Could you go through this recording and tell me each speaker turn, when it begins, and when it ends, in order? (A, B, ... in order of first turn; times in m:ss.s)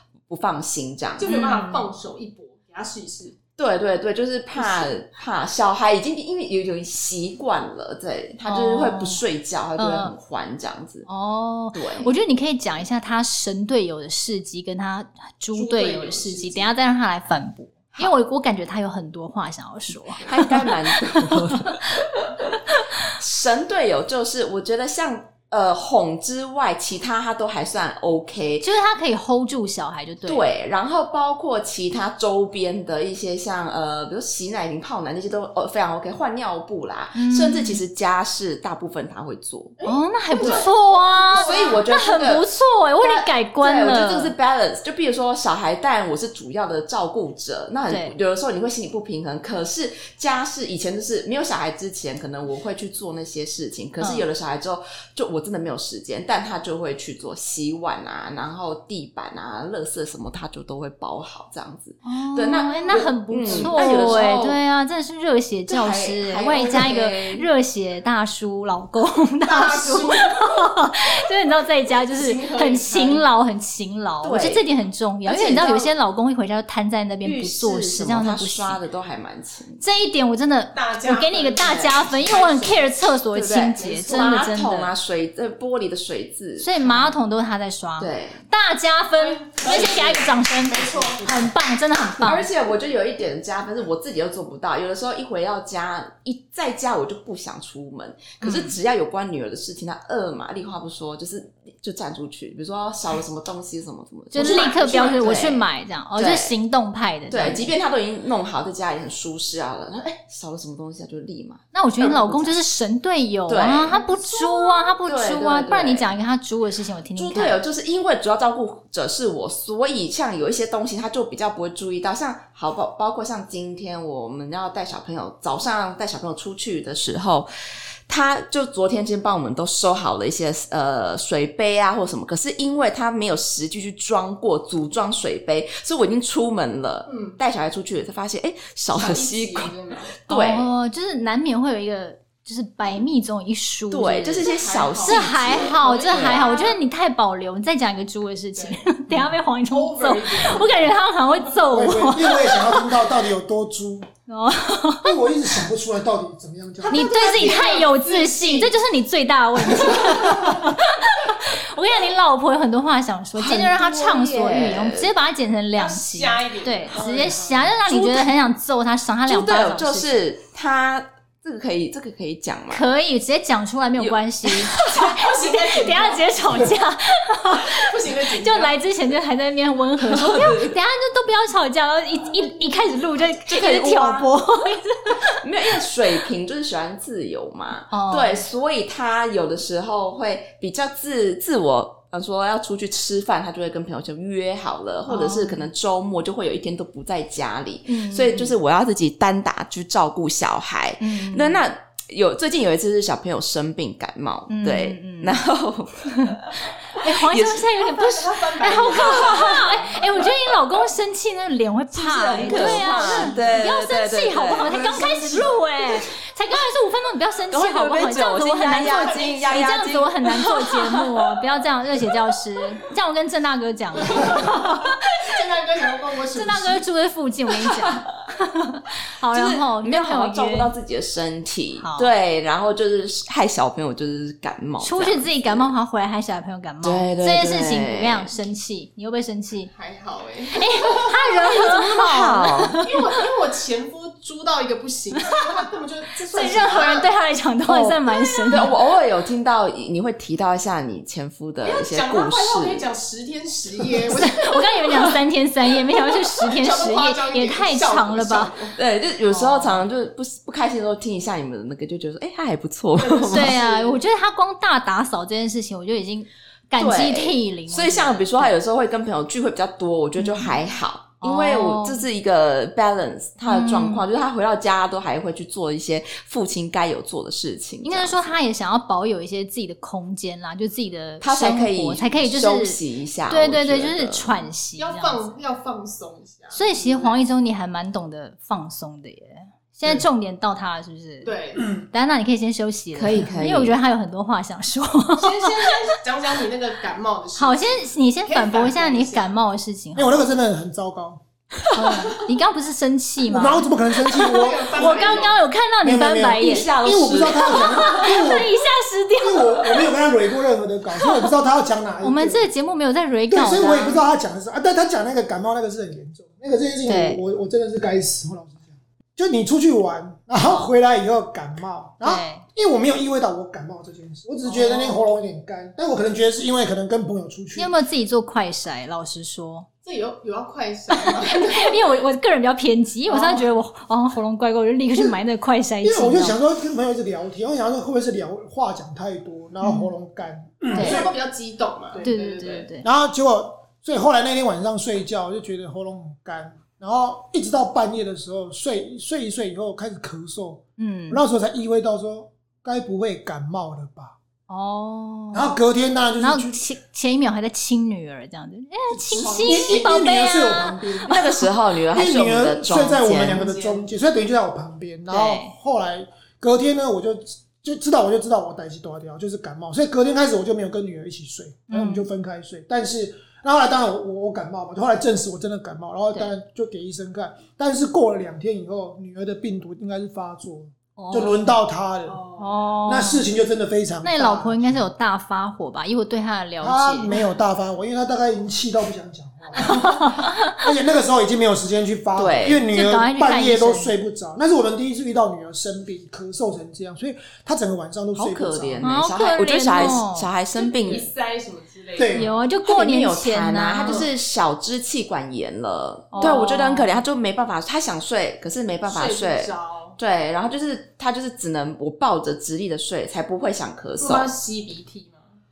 0:00.3-0:01.4 A
0:01.2-0:03.4 B
0:01.3-0:01.9 C
0:03.6-0:11.1 A
0:04.6-0:04.9 B
0:08.5-0:09.2 C
0:09.8-0:10.2 C
0:11.1-0:21.8 C
0:11.7-0:12.1 A
0:15.5-0:16.7 B
0:20.2-0:22.4 A
0:22.7-0:23.1 C
0:23.1-0:28.7 A
0:28.6-0:30.4 C
0:30.2-0:39.8 A
0:37.2-0:37.8 C
0:39.8-0:41.8 B
0:39.8-0:44.4 C
0:40.4-0:40.7 A
0:41.3-0:42.4 A
0:43.0-1:04.6 A
0:47.9-0:48.1 C
0:54.0-0:54.3 C
1:02.0-1:18.8 C
1:02.7-1:03.8 B
1:05.7-1:07.5 A
1:09.5-1:10.6 B
1:12.1-1:13.3 B
1:14.2-1:14.7 A
1:15.3-1:15.9 A
1:17.2-1:19.8 A
1:19.8-1:24.9 C
1:20.7-1:22.9 B
1:23.3-1:27.2 A
1:23.8-1:24.4 B
1:26.6-1:32.5 C
1:28.0-1:28.4 A
1:29.2-1:31.4 B
1:29.6-1:31.3 A
1:32.2-1:46.6 A
1:38.4-1:38.8 C
1:44.3-1:47.7 C
1:44.4-1:45.4 B
1:47.3-1:52.6 A
1:51.7-1:57.6 C
1:53.5-1:56.1 A
1:53.9-1:54.2 B
1:57.2-2:07.5 A
2:08.1-2:20.7 A
2:17.1-2:17.4 B
2:18.9-2:20.1 B
2:20.3-2:24.5 C
2:23.9-2:26.5 A
2:24.4-2:26.8 B
2:25.0-2:32.9 C
2:29.7-2:30.9 B
2:31.7-2:34.1 D
2:34.3-2:35.1 C
2:35.0-2:37.2 D
2:36.8-2:38.8 B
2:36.9-2:50.3 C
2:40.0-2:40.6 B
2:43.4-2:45.1 A
2:45.8-2:47.0 B
2:46.9-2:47.8 D
2:47.9-2:48.3 A
2:49.3-2:52.9 A
2:52.7-3:05.4 C
2:54.0-2:54.8 A
2:54.8-2:56.6 B
2:57.6-2:58.8 B
3:00.0-3:00.8 A
3:03.5-3:04.3 A
3:05.4-3:27.7 A
3:07.9-3:08.5 C
3:15.1-3:15.7 C
3:17.9-3:18.6 C
3:21.0-3:21.6 C
3:24.5-3:25.4 C
3:26.1-3:45.3 C
3:28.0-3:30.3 B
3:29.2-3:29.6 A
3:31.9-3:34.8 A
3:32.4-3:33.0 D
3:32.6-3:33.6 B
3:34.6-3:35.6 D
3:37.5-3:41.1 A
3:38.8-3:39.8 B
3:44.0-3:46.8 B
3:46.3-3:50.7 C
3:47.7-3:48.0 A
3:49.3-3:55.7 A
3:51.8-3:52.1 C
3:54.8-3:59.7 C
3:56.8-3:58.3 A
3:59.7-4:01.8 B
4:00.5-4:03.0 C
4:01.5-4:02.8 A
4:02.8-4:07.1 B
4:06.3-4:08.8 C
4:07.7-4:07.9 A
4:08.3-4:08.6 B
4:08.5-4:12.8 A
4:11.6-4:15.2 B
4:14.1-4:18.5 C
4:15.9-4:18.8 B
4:18.8-4:23.6 A
4:19.3-4:19.8 C
4:23.0-4:24.0 B
4:23.3-4:28.6 C
4:26.8-4:38.3 A
4:30.2-4:30.6 C
4:31.2-4:32.0 C
4:33.5-4:34.0 C
4:37.8-4:42.8 C
4:41.2-4:44.5 A
4:43.3-4:45.3 C
4:44.8-4:47.2 B
4:46.5-4:51.3 C
4:51.2-4:51.8 B
4:51.6-4:51.9 D
4:51.9-4:55.8 C
4:52.9-4:53.8 A
4:55.2-4:59.3 B
4:57.4-5:00.3 C
5:00.0-5:01.2 D
5:01.7-5:02.1 A
5:01.7-5:06.7 C
5:03.3-5:05.1 D
5:04.1-5:05.4 B
5:05.8-5:08.5 D
5:06.4-5:07.7 A
5:07.5-5:09.9 C
5:09.2-5:12.5 D
5:11.0-5:11.3 C
5:12.0-5:14.0 C
5:13.3-5:27.7 D
5:16.9-5:17.2 C
5:20.4-5:20.7 C
5:22.0-5:22.4 C
5:24.5-5:25.0 B
5:27.6-5:29.7 C
5:29.8-5:31.8 B
5:31.2-5:36.4 C
5:33.1-5:33.4 B
5:35.8-5:41.1 D
5:39.6-5:39.9 C
5:40.7-5:41.1 C
5:40.7-5:42.7 B
5:42.0-5:42.9 C
5:42.8-5:54.2 D
5:50.8-5:51.2 C
5:54.5-5:55.6 C
5:55.3-5:56.6 D
5:56.2-6:01.3 C
5:58.9-6:01.3 D
5:59.1-6:00.0 B
6:01.1-6:03.5 A
6:01.9-6:22.2 D
6:03.2-6:03.9 B
6:05.1-6:05.6 C
6:11.7-6:12.1 C
6:21.0-6:21.6 C
6:22.1-6:22.6 B
6:22.4-6:23.3 C
6:22.9-6:24.9 D
6:24.0-6:27.1 C
6:26.6-6:38.9 D
6:29.6-6:30.5 C
6:32.2-6:32.6 A
6:32.7-6:34.0 C
6:38.2-6:41.1 A
6:38.8-6:40.3 C
6:40.6-6:42.4 B
6:42.0-6:42.3 D
6:42.1-6:44.1 C
6:42.6-6:54.3 A
6:46.1-6:47.0 C
6:46.2-6:46.4 B
6:48.9-6:50.0 B
6:54.0-6:55.4 B